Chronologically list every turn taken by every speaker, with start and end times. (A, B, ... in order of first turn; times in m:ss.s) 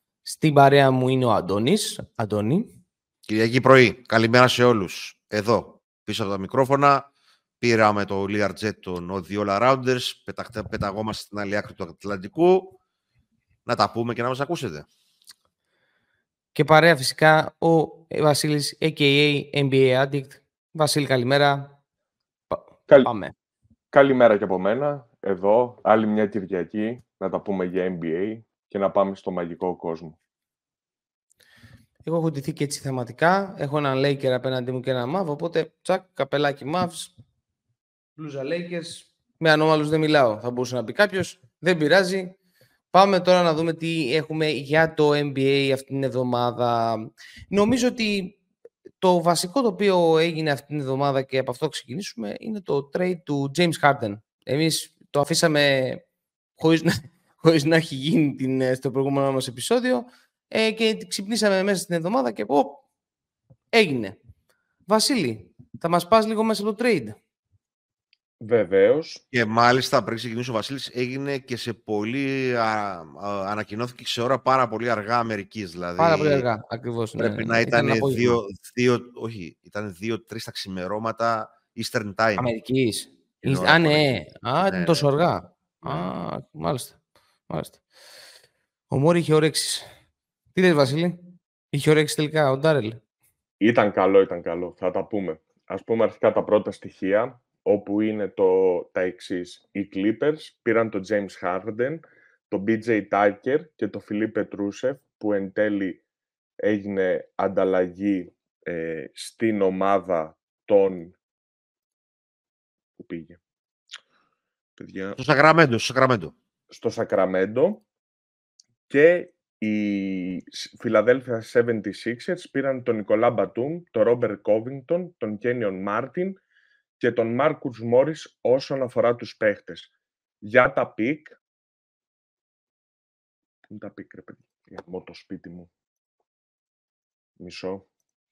0:00.2-0:02.7 A
0:03.2-0:07.1 B
0:07.6-0:12.8 B
0:13.6-0:14.9 B
0:16.5-0:21.8 A
0:22.5-0:23.3 A
0:23.9-0:30.2 C
0:32.0-0:37.1 A
0:38.2-0:42.3 A
0:42.9-0:48.4 A
0:49.0-0:56.0 A
0:56.6-1:02.8 A
1:03.7-1:04.2 A
1:04.9-1:07.2 A
1:08.4-1:09.2 C
1:09.3-1:16.5 B
1:16.0-1:18.4 A
1:17.2-1:22.5 B
1:22.4-1:27.0 A
1:23.4-1:25.1 B
1:25.8-1:26.1 B
1:27.5-1:27.8 A
1:28.9-1:29.9 A
1:30.5-1:33.0 A
1:33.6-1:46.0 C
1:46.6-1:51.1 C
1:53.0-1:53.4 C
1:54.8-1:55.2 C
1:55.2-1:56.3 B
1:56.7-1:57.8 C
1:58.9-2:06.4 C
2:07.0-2:09.9 C
2:10.4-2:11.3 C
2:13.7-2:15.7 C
2:17.4-2:17.9 C